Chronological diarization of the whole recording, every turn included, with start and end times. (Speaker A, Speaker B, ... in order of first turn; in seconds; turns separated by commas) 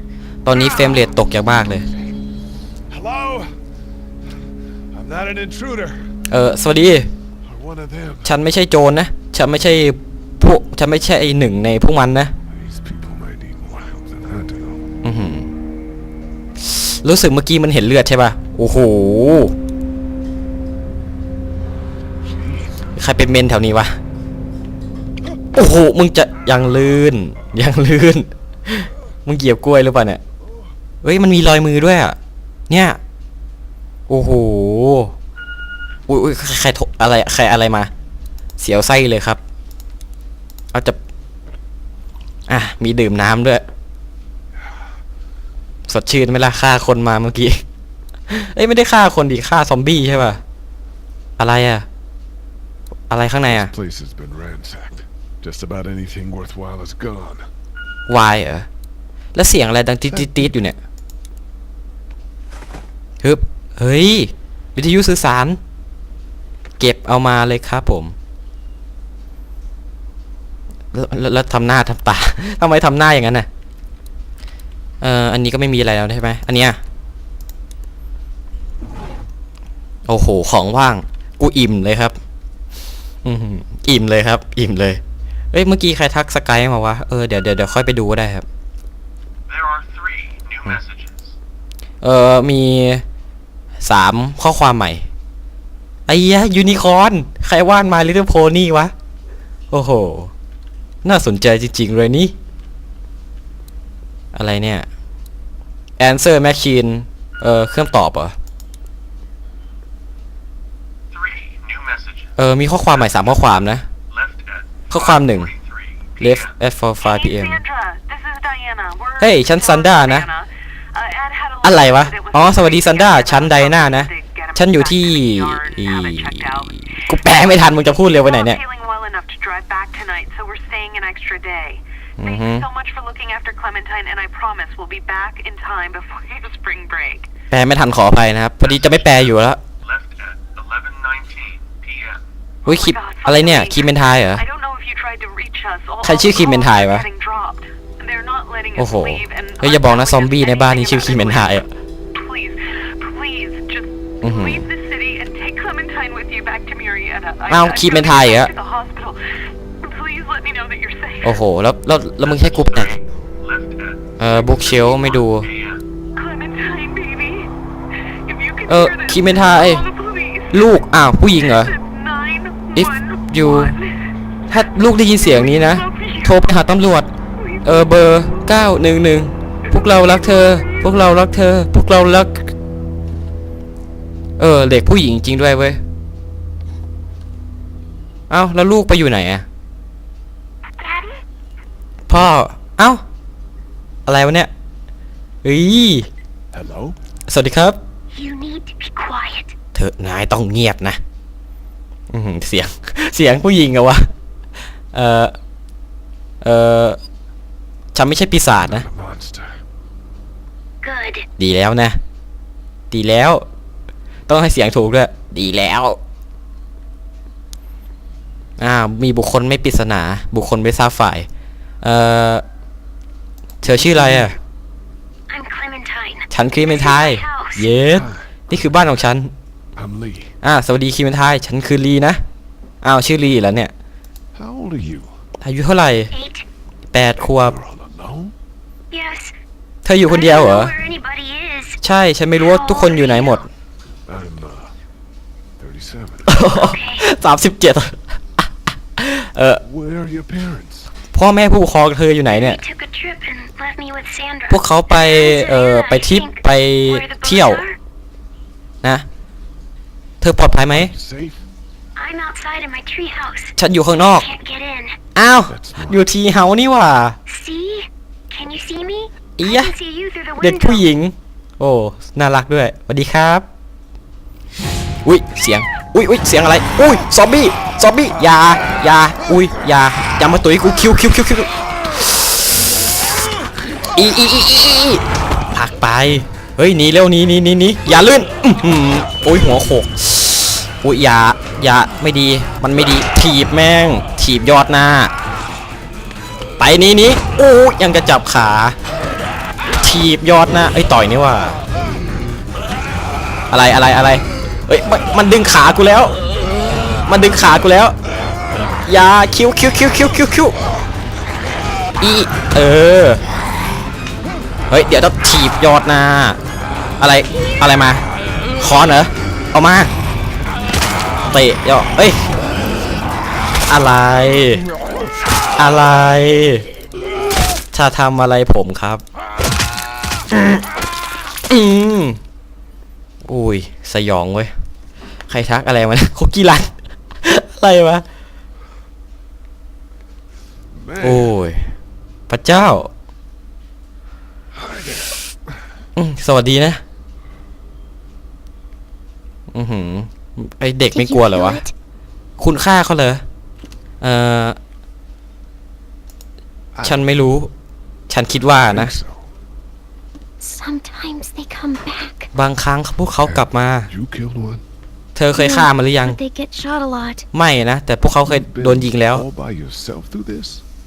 Speaker A: 0.5-1.9, Speaker B: 2.9-3.5, Speaker B: 4.9-6.0, Speaker A: 6.3-7.1, Speaker B: 7.4-8.4, Speaker A: 8.2-12.3, Speaker B: 12.5-14.9, Speaker A: 15.0-15.5, Speaker A: 16.6-19.5, Speaker A: 22.9-24.0, Speaker A: 25.5-30.2, Speaker A: 31.0-32.2, Speaker A: 32.7-33.0, Speaker A: 34.1-35.1, Speaker A: 36.1-37.9, Speaker A: 38.6-39.4, Speaker A: 42.5-43.6, Speaker A: 45.9-47.6, Speaker A: 48.3-50.4, Speaker A: 51.4-51.9, Speaker A: 53.1-53.7, Speaker B: 53.5-57.5, Speaker A: 58.1-58.7, Speaker A: 59.3-60.8, Speaker A: 63.2-65.6, Speaker A: 66.8-68.1, Speaker A: 70.9-73.5, Speaker A: 75.0-76.8, Speaker A: 80.1-82.2, Speaker A: 83.2-85.0, Speaker A: 85.5-88.5, Speaker C: 89.5-91.1, Speaker A: 92.0-93.0, Speaker A: 93.8-95.1, Speaker A: 96.1-98.9, Speaker A: 99.7-100.3, Speaker A: 101.0-102.3, Speaker A: 104.3-104.9, Speaker A: 106.0-108.4, Speaker C: 111.2-112.3, Speaker A: 112.4-113.9, Speaker C: 114.2-114.6, Speaker A: 114.9-115.5, Speaker A: 116.2-117.6, Speaker D: 117.0-127.1, Speaker A: 119.2-120.3, Speaker A: 121.6-128.6, Speaker D: 128.0-137.3, Speaker A: 132.2-132.7, Speaker A: 137.5-139.6, Speaker C: 139.9-142.2, Speaker A: 142.7-144.4, Speaker D: 142.7-159.2, Speaker A: 146.0-147.1, Speaker A: 148.8-151.7, Speaker A: 154.2-154.7, Speaker A: 157.5-158.5, Speaker D: 159.8-161.4, Speaker A: 161.2-163.0, Speaker C: 162.9-164.0, Speaker A: 164.2-165.5, Speaker C: 165.0-165.8, Speaker D: 166.2-167.5, Speaker D: 168.2-170.6, Speaker A: 168.7-169.9, Speaker A: 170.5-171.8, Speaker D: 171.6-173.9, Speaker A: 172.8-173.8, Speaker A: 174.5-177.1, Speaker D: 175.2-176.4, Speaker D: 177.4-177.8, Speaker A: 177.6-182.5, Speaker D: 180.4-180.8, Speaker A: 184.4-185.8, Speaker A: 188.3-189.4, Speaker E: 190.8-191.2, Speaker A: 192.1-193.0, Speaker A: 194.1-194.5, Speaker A: 195.4-196.1, Speaker B: 196.5-197.0, Speaker A: 197.3-197.8, Speaker E: 198.1-199.6, Speaker A: 199.7-201.0, Speaker A: 202.1-204.1, Speaker A: 204.9-205.3, Speaker A: 206.4-207.0, Speaker A: 207.9-208.9, Speaker B: 208.6-209.6, Speaker E: 210.8-211.3, Speaker A: 211.4-212.0, Speaker A: 212.9-213.4, Speaker A: 214.3-216.0, Speaker A: 218.6-221.3, Speaker A: 221.8-222.4, Speaker A: 223.6-224.4, Speaker B: 223.8-224.3, Speaker E: 225.3-227.8, Speaker A: 226.3-229.3, Speaker B: 227.9-228.8, Speaker B: 229.8-230.3, Speaker A: 230.4-232.2, Speaker A: 232.8-233.7, Speaker B: 234.3-235.2, Speaker A: 235.4-236.1, Speaker E: 236.1-236.5, Speaker A: 236.9-237.6, Speaker B: 237.2-238.3, Speaker E: 238.9-239.3, Speaker A: 239.8-240.8, Speaker E: 240.0-241.8, Speaker A: 241.8-243.5, Speaker E: 242.3-243.5, Speaker B: 244.1-244.7, Speaker B: 245.6-246.4, Speaker A: 246.3-249.6, Speaker E: 246.5-247.1, Speaker B: 249.6-250.9, Speaker A: 251.1-252.6, Speaker E: 252.3-257.8, Speaker A: 254.5-257.6, Speaker A: 260.2-260.9, Speaker B: 260.7-261.4, Speaker E: 262.0-265.0, Speaker A: 263.6-264.3, Speaker A: 265.1-267.2, Speaker B: 265.5-266.0, Speaker E: 267.3-270.9, Speaker A: 269.4-269.8, Speaker A: 270.4-273.5, Speaker A: 275.0-282.4, Speaker A: 283.9-295.1, Speaker A: 296.6-298.8, Speaker A: 299.8-301.6, Speaker A: 303.5-306.2, Speaker A: 306.9-307.9, Speaker A: 308.9-310.6, Speaker A: 312.0-313.2, Speaker A: 314.7-316.4, Speaker A: 317.0-318.0, Speaker A: 318.6-319.9, Speaker A: 321.3-322.2, Speaker A: 323.7-324.7, Speaker A: 325.6-326.7, Speaker A: 327.7-329.0, Speaker A: 331.5-332.2, Speaker A: 333.2-334.5, Speaker A: 335.3-338.1, Speaker B: 340.7-341.3, Speaker A: 341.0-341.7, Speaker A: 342.3-342.9, Speaker B: 344.5-345.3, Speaker A: 346.0-346.8, Speaker A: 349.5-351.6, Speaker E: 350.9-351.7, Speaker A: 352.4-353.2, Speaker A: 354.0-354.6, Speaker B: 356.8-357.1, Speaker A: 356.8-357.5, Speaker A: 358.1-358.9, Speaker B: 358.6-359.3, Speaker E: 360.4-362.3, Speaker A: 362.3-363.9, Speaker B: 363.3-364.6, Speaker A: 365.2-366.2, Speaker E: 365.3-367.2, Speaker A: 367.3-369.2, Speaker B: 368.3-370.6